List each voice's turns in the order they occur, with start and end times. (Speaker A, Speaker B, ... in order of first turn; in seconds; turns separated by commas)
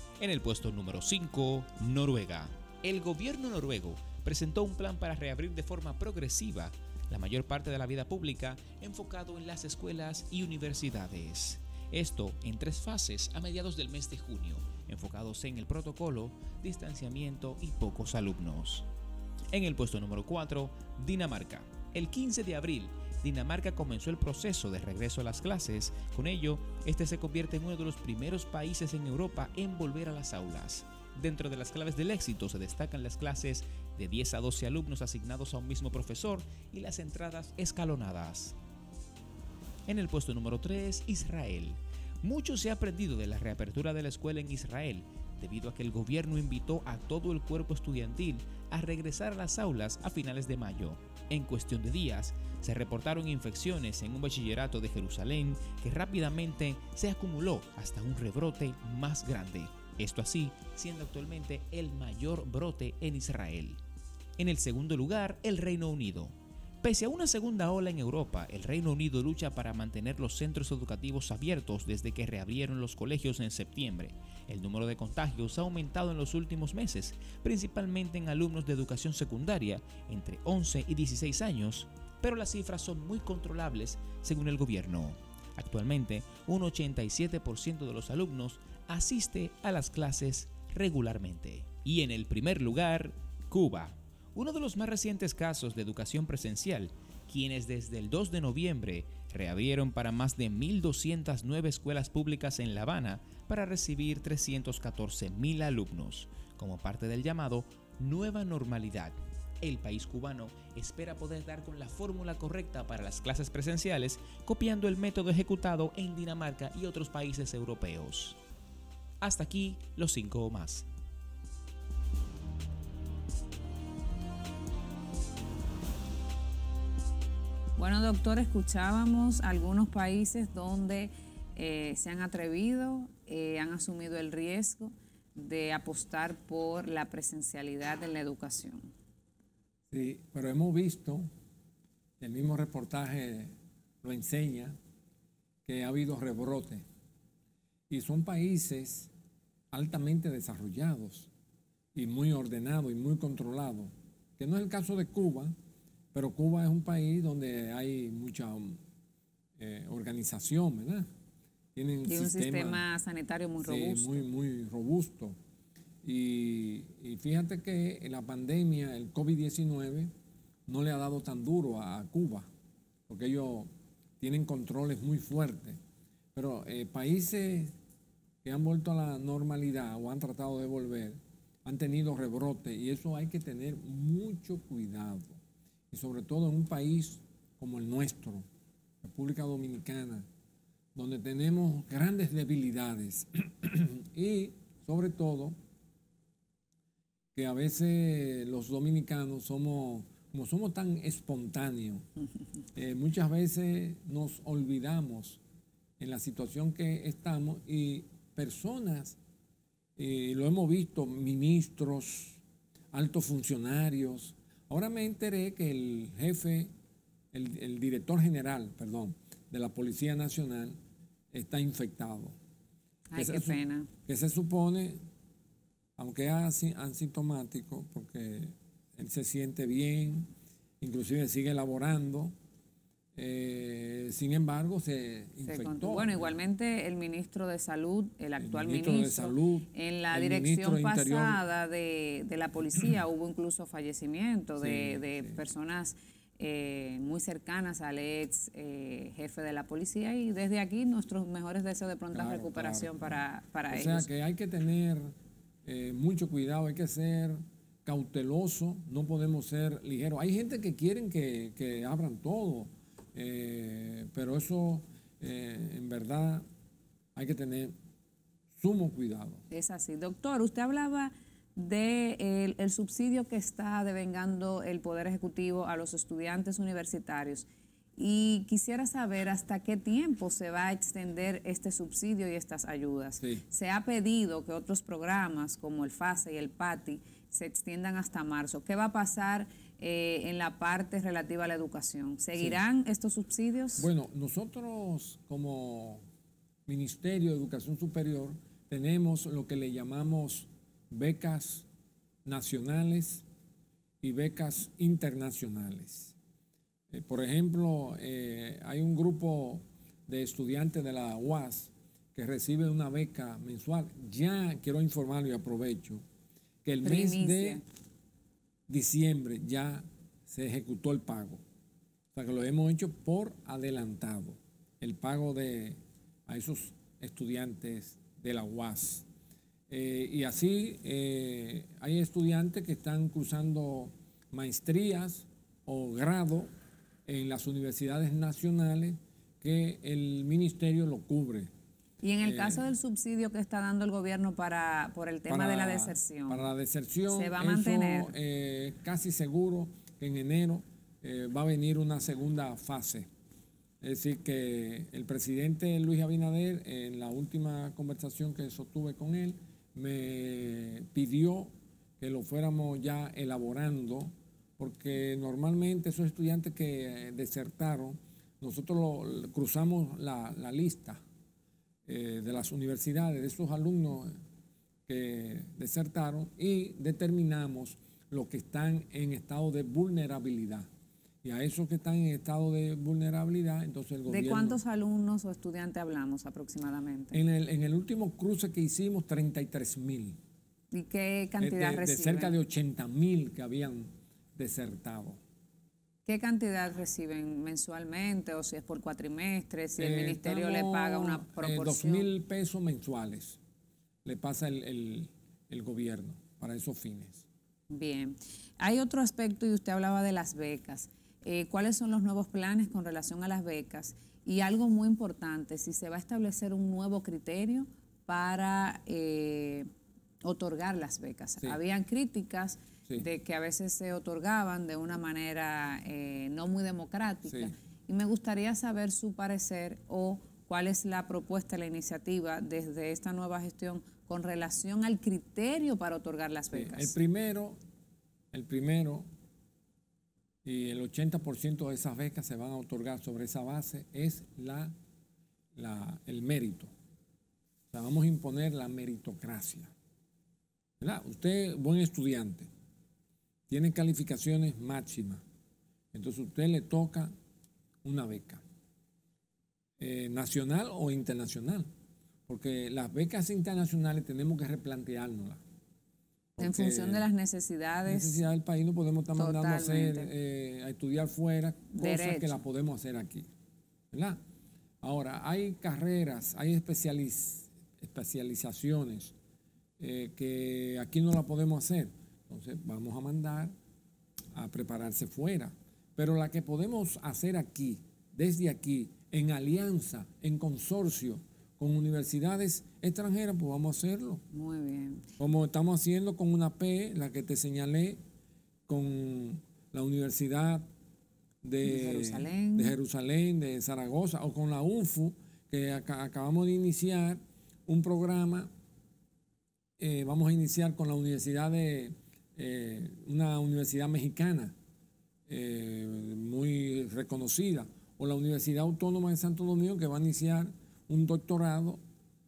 Speaker A: 0.2-18.9, Speaker A: 19.5-38.5, Speaker A: 39.9-63.8, Speaker A: 64.4-118.4, Speaker A: 119.2-120.8, Speaker B: 127.8-138.9, Speaker C: 139.9-141.3, Speaker C: 142.2-144.8, Speaker C: 145.7-146.8, Speaker C: 147.9-149.1, Speaker C: 149.7-151.3, Speaker C: 151.9-155.5, Speaker C: 156.1-158.8, Speaker C: 159.6-161.1, Speaker C: 161.8-162.8, Speaker B: 162.1-164.2, Speaker C: 163.6-165.3, Speaker C: 166.0-170.1, Speaker C: 170.7-172.5, Speaker C: 173.1-173.7, Speaker C: 174.2-175.8, Speaker C: 176.3-177.7, Speaker C: 178.4-185.4, Speaker C: 185.9-188.4, Speaker C: 189.0-190.3, Speaker C: 190.9-195.6, Speaker C: 197.3-202.0, Speaker C: 202.7-205.4, Speaker C: 206.0-209.2, Speaker C: 210.0-212.4, Speaker C: 212.9-216.7, Speaker C: 217.3-220.8, Speaker C: 221.3-222.3, Speaker B: 223.1-223.9, Speaker C: 223.2-225.0, Speaker C: 226.0-230.3, Speaker C: 230.8-232.3, Speaker C: 233.1-236.3, Speaker B: 235.4-254.1, Speaker C: 238.4-241.4, Speaker C: 244.6-245.4, Speaker C: 252.1-255.1, Speaker C: 255.6-266.4, Speaker C: 267.1-267.7, Speaker C: 268.6-269.4, Speaker B: 269.5-293.9, Speaker C: 292.3-292.6, Speaker C: 293.8-296.0, Speaker C: 296.7-301.7, Speaker C: 302.2-303.2, Speaker C: 304.0-306.1, Speaker C: 306.9-316.0, Speaker C: 316.6-317.6, Speaker B: 316.8-317.6, Speaker C: 318.7-321.4, Speaker C: 322.1-329.1, Speaker C: 329.7-336.5, Speaker C: 337.1-341.5, Speaker B: 342.0-346.4, Speaker C: 342.2-342.7, Speaker C: 345.3-353.1, Speaker B: 347.1-348.1, Speaker C: 353.8-371.0, Speaker C: 371.9-374.1, Speaker C: 374.9-380.7, Speaker C: 381.2-384.6, Speaker B: 384.1-387.2, Speaker C: 387.1-390.2, Speaker B: 390.7-392.4, Speaker C: 391.4-395.2, Speaker B: 396.1-402.1, Speaker C: 399.8-403.4, Speaker C: 404.0-407.2, Speaker B: 407.7-419.7, Speaker B: 420.2-436.9, Speaker C: 427.3-427.5, Speaker C: 436.5-437.6, Speaker C: 438.3-439.1, Speaker C: 440.4-444.7, Speaker C: 445.5-446.7, Speaker C: 447.7-449.7, Speaker C: 450.8-452.5, Speaker C: 453.5-455.2, Speaker C: 455.9-457.1, Speaker C: 457.8-458.4, Speaker C: 459.8-461.7, Speaker C: 462.3-465.4, Speaker C: 466.4-467.0, Speaker B: 466.4-468.2, Speaker C: 467.9-473.2, Speaker B: 469.1-470.1, Speaker B: 471.7-472.4, Speaker C: 473.9-474.2, Speaker C: 474.8-479.1, Speaker C: 479.8-483.5, Speaker C: 484.3-494.2, Speaker B: 494.3-495.1, Speaker C: 495.2-498.0, Speaker C: 498.7-500.6, Speaker C: 501.4-508.5, Speaker B: 501.6-502.8, Speaker C: 509.8-514.5, Speaker C: 515.3-521.8